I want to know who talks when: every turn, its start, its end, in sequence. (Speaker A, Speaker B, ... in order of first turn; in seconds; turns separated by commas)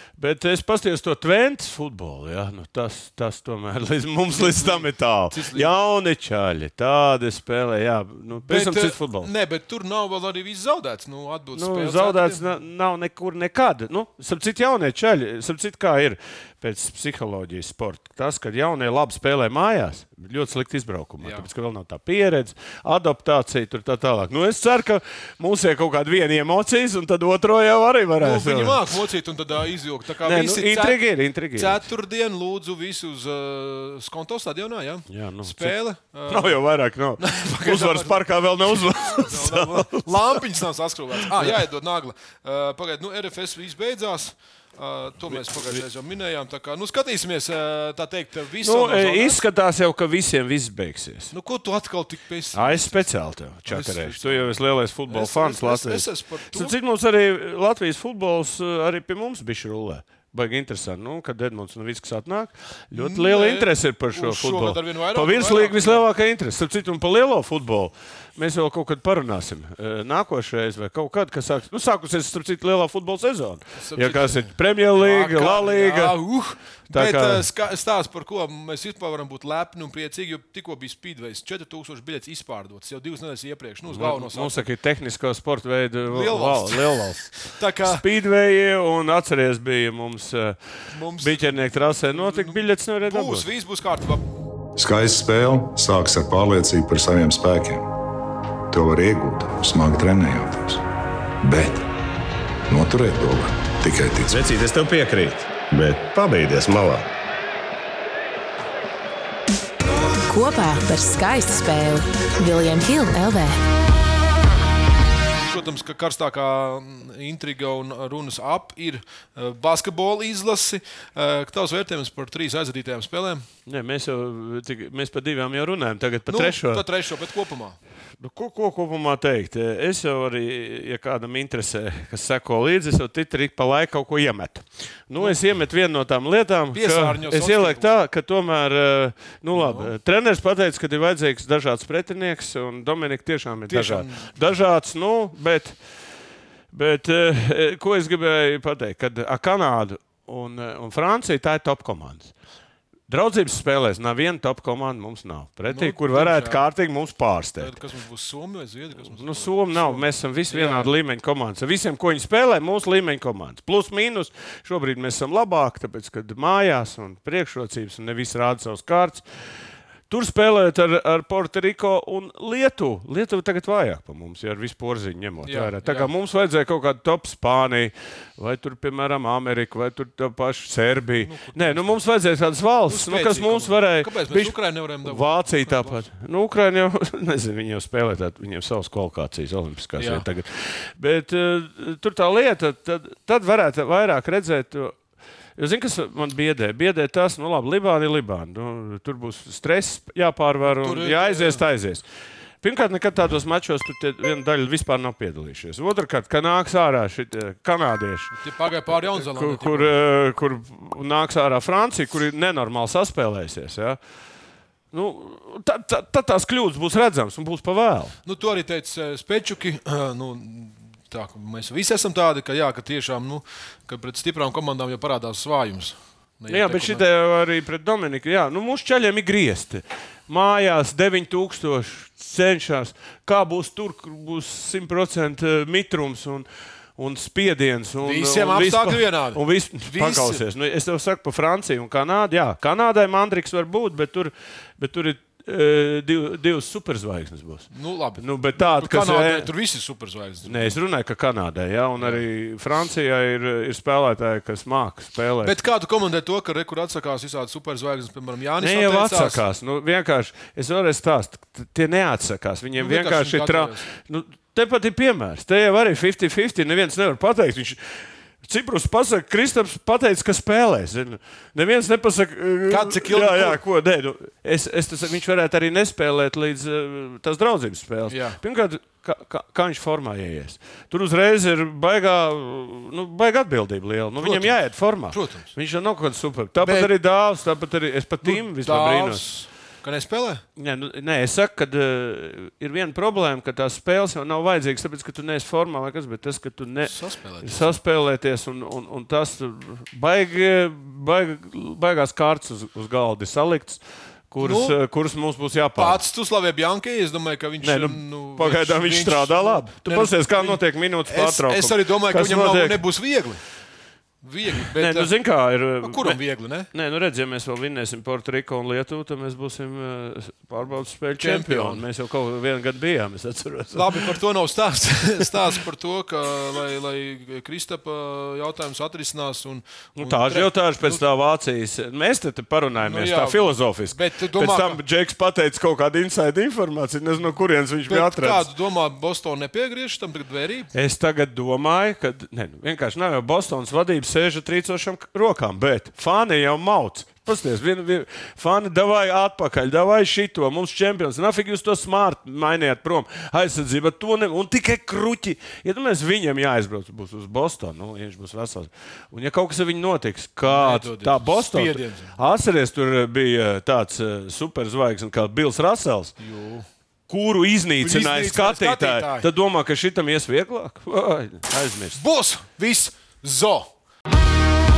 Speaker A: 0.1-9.3, Speaker B: 4.3-5.7, Speaker B: 8.4-12.4, Speaker A: 11.5-28.9, Speaker B: 21.2-21.5, Speaker B: 28.2-31.0, Speaker A: 30.2-31.8, Speaker B: 31.5-36.6, Speaker A: 35.1-40.4, Speaker B: 37.2-49.4, Speaker A: 41.3-41.6, Speaker A: 48.6-51.3, Speaker B: 51.3-53.1, Speaker A: 52.5-76.2, Speaker B: 53.6-54.5, Speaker B: 55.1-56.8, Speaker B: 62.9-66.0, Speaker B: 73.8-84.7, Speaker A: 76.9-77.4, Speaker A: 83.9-90.6, Speaker B: 86.1-88.0, Speaker B: 90.9-91.5, Speaker A: 91.2-93.5, Speaker B: 92.1-94.2, Speaker C: 94.8-97.9, Speaker C: 98.7-100.8, Speaker C: 101.4-101.9, Speaker C: 102.7-104.4, Speaker D: 104.3-107.1, Speaker E: 110.3-113.6, Speaker B: 115.4-123.4, Speaker A: 123.7-126.8, Speaker B: 126.3-127.8, Speaker A: 128.2-145.8, Speaker B: 136.7-137.9, Speaker B: 139.5-139.9, Speaker B: 143.7-144.3, Speaker A: 146.7-152.3, Speaker A: 153.1-157.7, Speaker B: 155.7-156.6, Speaker B: 157.6-160.9, Speaker A: 159.1-169.2, Speaker A: 170.1-194.9, Speaker B: 175.4-176.1, Speaker B: 181.2-182.0, Speaker B: 182.9-186.0, Speaker B: 190.0-190.2, Speaker A: 195.6-202.0, Speaker B: 200.6-201.6, Speaker A: 202.6-208.4, Speaker B: 208.3-209.9, Speaker A: 208.9-214.0, Speaker A: 214.9-218.2, Speaker B: 218.2-227.0, Speaker A: 226.5-249.5, Speaker B: 238.0-240.4, Speaker B: 247.7-250.7, Speaker A: 250.4-255.5, Speaker B: 252.0-252.2, Speaker B: 255.4-259.4, Speaker A: 258.6-289.3, Speaker B: 262.8-263.8, Speaker B: 272.7-273.6, Speaker B: 278.1-278.4, Speaker B: 284.2-284.6, Speaker B: 285.1-285.5, Speaker B: 286.6-286.9, Speaker B: 288.2-290.4, Speaker A: 290.6-306.0, Speaker B: 296.8-297.8, Speaker B: 304.4-304.8, Speaker B: 305.8-313.4, Speaker A: 307.6-312.8, Speaker B: 314.2-315.1, Speaker A: 314.7-316.2, Speaker B: 315.8-316.7, Speaker A: 316.7-324.1, Speaker B: 321.2-321.8, Speaker B: 323.7-331.0, Speaker A: 330.0-338.5, Speaker B: 332.8-334.8, Speaker B: 337.9-340.7, Speaker A: 340.7-366.1, Speaker B: 360.4-362.2, Speaker B: 366.2-366.7, Speaker A: 367.1-372.0, Speaker B: 367.8-369.3, Speaker B: 371.9-373.7